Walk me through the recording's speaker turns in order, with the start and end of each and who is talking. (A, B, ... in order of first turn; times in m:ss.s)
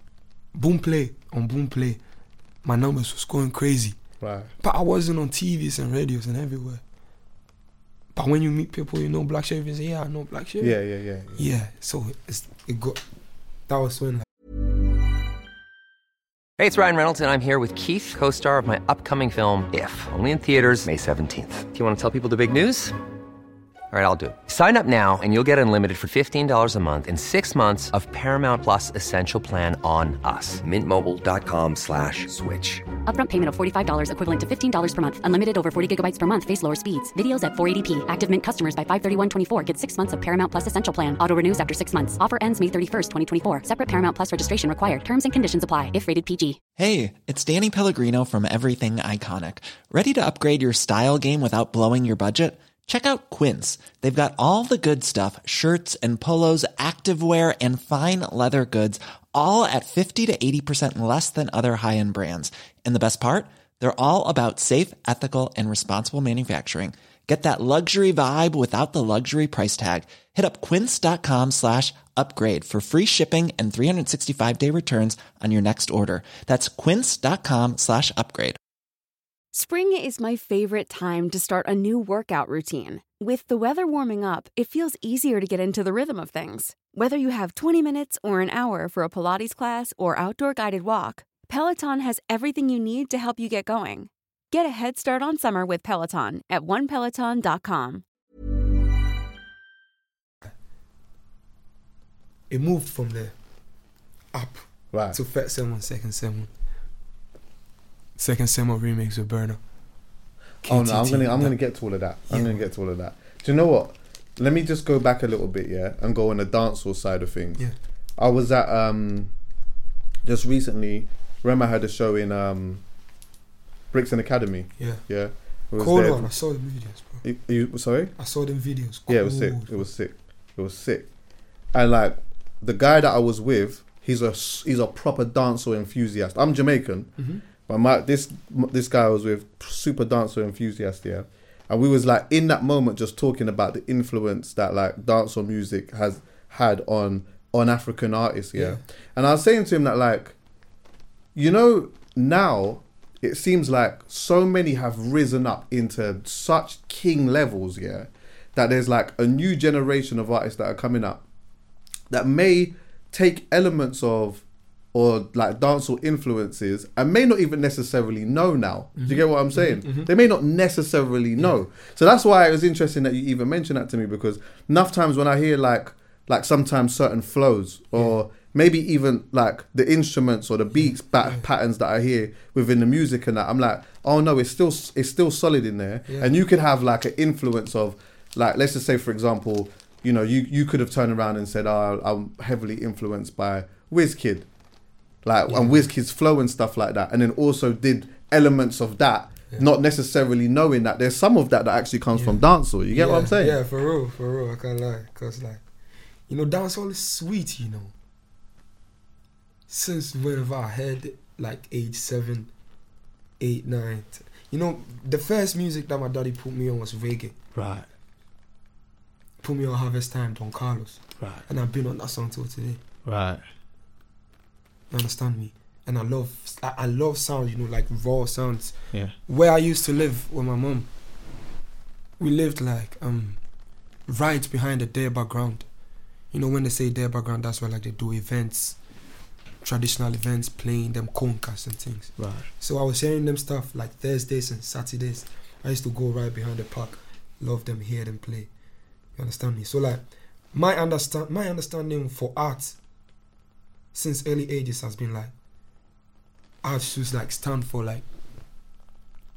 0:00.6-0:02.0 A
0:02.6-0:04.0 A
0:04.2-0:04.5 B
0:04.6-0:06.8 A
0:08.1-0:10.8 A
0:10.6-0:11.5 B
0:11.4-0:13.0 A
0:13.7-0:14.3 A
0:16.6-0:23.0 C
0:23.9-0:32.9 C
0:33.1-0:46.6 D
0:46.8-1:18.6 E
1:19.5-1:38.0 F
1:42.5-1:43.4 A
1:44.3-1:46.5 A
1:44.9-1:45.2 B
1:48.2-1:49.6 A
1:50.6-1:51.6 A
1:50.6-1:57.6 B
1:52.3-1:52.7 A
1:58.2-1:59.3 B
2:00.2-2:02.8 B
2:03.9-2:06.3 B
2:05.8-2:07.2 A
2:07.2-2:08.1 B
2:08.2-2:09.9 A
2:09.1-2:11.1 B
2:11.7-2:17.1 B
2:17.2-2:17.4 A
2:17.7-2:30.4 B
2:28.6-2:28.8 A
2:31.4-2:41.2 B
2:42.1-3:14.5 B
2:49.0-2:50.1 A
3:00.8-3:01.4 A
3:06.1-3:06.4 A
3:15.2-3:23.6 B
3:15.5-3:15.9 A
3:22.1-3:25.6 A
3:26.3-3:27.9 A
3:29.7-3:32.5 A
3:33.4-3:37.4 A
3:37.6-3:37.9 B
3:39.4-3:42.8 A
3:41.2-3:41.4 B
3:43.1-3:43.4 B
3:44.9-3:48.7 A
3:49.3-3:50.9 A
3:52.2-3:53.4 A
3:54.1-3:55.6 A
3:56.3-3:58.8 A
3:59.6-4:08.5 A
4:02.2-4:02.5 B
4:09.2-4:12.8 A
4:13.9-4:15.3 A
4:16.6-4:18.0 A